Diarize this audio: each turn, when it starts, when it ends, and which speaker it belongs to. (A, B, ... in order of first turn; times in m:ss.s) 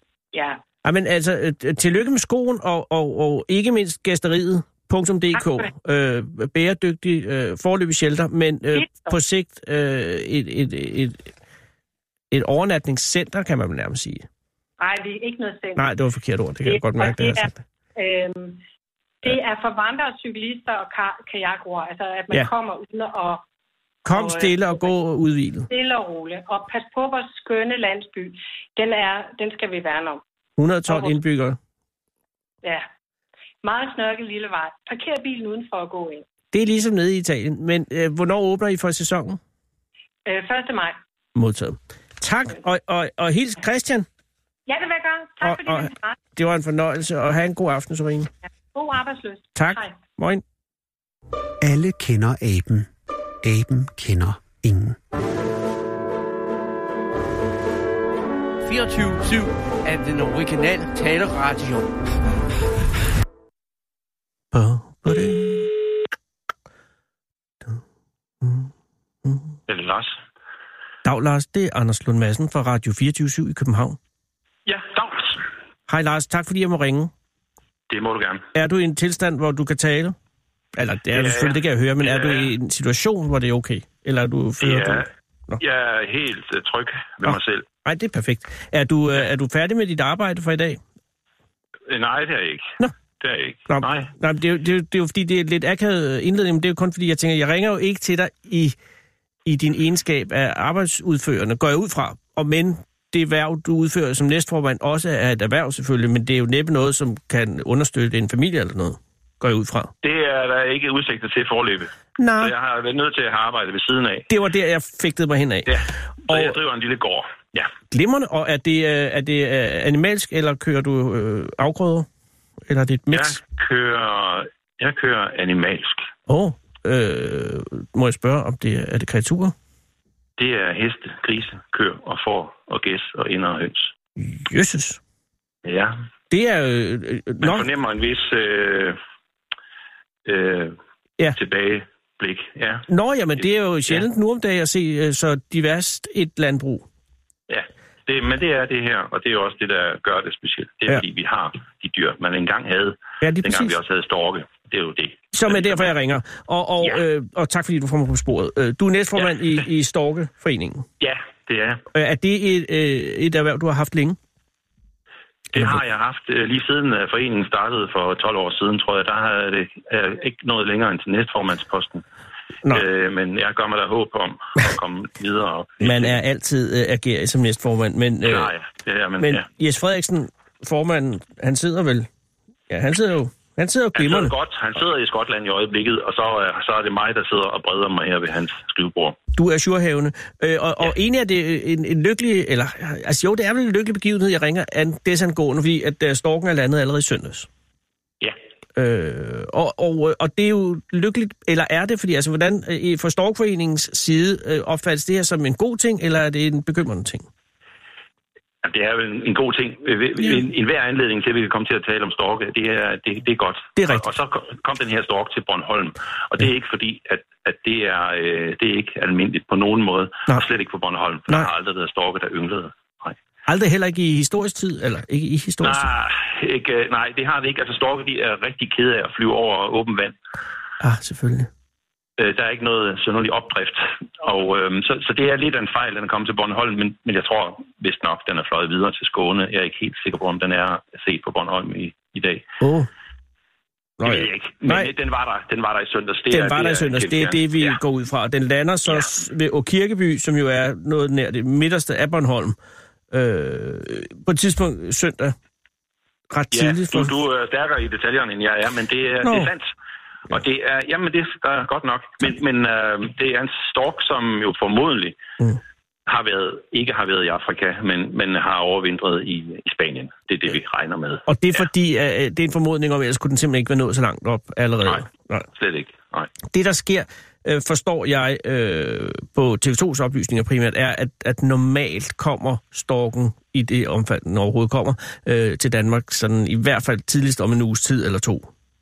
0:00.3-0:00.6 A
0:00.8-0:11.3 B
0:05.4-0:05.6 A
0:08.7-0:09.1 A
0:12.3-0:14.2 B
0:14.8-0:15.9 A
0:15.8-0:17.6 B
0:16.6-0:18.6 A
0:19.2-0:23.4 A
0:24.0-0:25.7 B
0:24.1-0:24.9 A
0:25.7-0:30.2 A
0:30.6-0:31.6 B
0:30.9-0:31.2 A
0:33.6-0:36.2 A
0:36.5-0:39.4 B
0:40.2-0:41.0 A
0:41.3-0:44.1 B
0:44.7-0:46.2 A
0:45.4-0:48.3 B
0:48.7-0:49.9 A
0:49.6-0:50.4 B
0:51.6-0:52.9 C
0:53.4-0:55.0 C
0:58.6-1:02.1 D
1:04.5-1:05.7 B
1:08.4-1:08.7 B
1:09.2-1:09.5 B
1:09.7-1:10.2 E
1:11.0-1:14.0 B
1:14.6-1:15.4 E
1:15.9-1:17.1 B
1:17.9-1:18.4 E
1:18.5-1:20.2 B
1:20.7-1:25.0 B
1:21.1-1:22.5 E
1:24.6-1:25.0 E
1:25.6-1:27.7 E
1:27.2-1:30.8 B
1:31.9-1:34.1 E
1:33.7-1:38.8 B
1:39.4-1:49.9 B
1:50.0-1:54.3 E
1:52.2-1:52.5 B
1:54.3-1:56.6 B
1:55.7-1:57.7 E
1:57.9-2:02.1 B
2:02.7-2:03.4 B
2:03.1-2:06.1 E
2:06.3-2:09.5 B
2:10.4-2:13.9 E
2:14.2-2:15.0 B
2:15.6-2:16.0 E
2:16.3-2:17.6 B
2:17.4-2:19.0 E
2:20.2-2:20.8 E
2:21.3-2:22.8 E
2:22.9-2:26.8 B
2:27.5-2:35.9 E
2:33.2-2:33.8 B
2:35.3-2:40.8 B
2:41.0-2:41.8 E
2:41.9-2:44.2 B
2:45.5-2:52.0 E
2:52.6-2:56.2 E
2:55.8-2:58.5 B
2:58.2-2:59.4 E
2:59.2-3:02.1 B
3:02.7-3:04.3 B
3:04.0-3:09.2 E
3:09.3-3:17.5 B
3:18.8-3:27.2 B
3:28.6-3:43.2 E
3:33.8-3:34.0 B
3:43.5-3:45.9 B
3:45.6-3:50.2 E
3:50.8-3:51.5 B
3:52.2-4:02.4 E
4:02.6-4:02.9 B
4:04.0-4:04.9 B
4:04.0-4:07.8 E
4:06.3-4:12.6 B
4:13.1-4:15.4 B
4:16.3-4:17.1 B
4:16.5-4:19.7 E
4:19.2-4:19.5 B
4:20.3-4:25.2 E
4:26.1-4:31.2 E
4:31.3-4:35.5 B
4:34.8-4:36.3 E
4:36.5-4:48.5 B